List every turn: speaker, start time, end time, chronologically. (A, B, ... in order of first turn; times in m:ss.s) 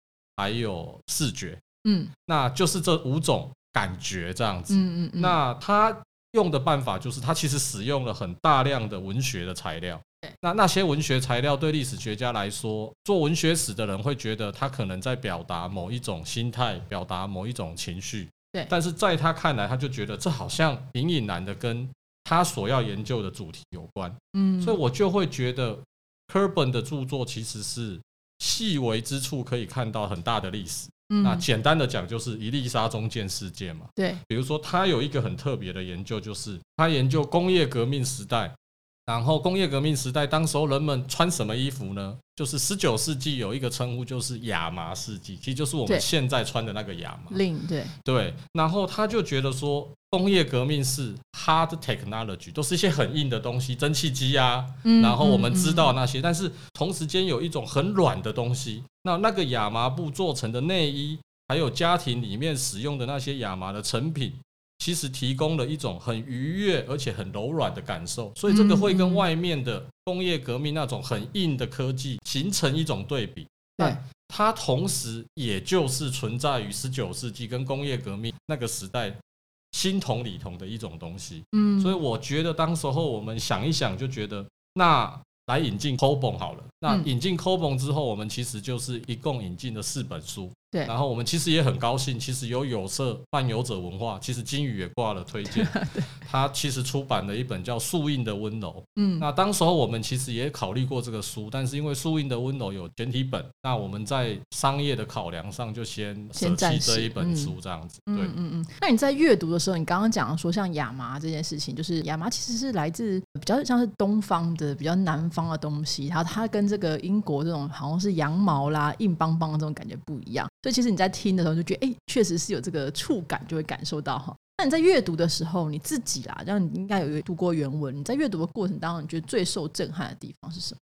0:00.4-0:01.6 A
0:01.8-0:02.1 B
0:02.3-0:38.6 A
0:04.7-0:05.4 B
0:24.3-0:24.8 B
0:31.1-0:31.4 B
0:39.1-0:47.4 A
0:47.3-0:47.9 B
0:48.0-1:19.2 A
0:54.8-0:55.9 B
1:08.5-1:09.2 B
1:19.7-1:48.3 A
1:21.5-1:22.0 B
1:35.4-1:36.2 B
1:39.0-1:39.3 B
1:46.4-1:47.5 B
1:48.1-2:10.8 B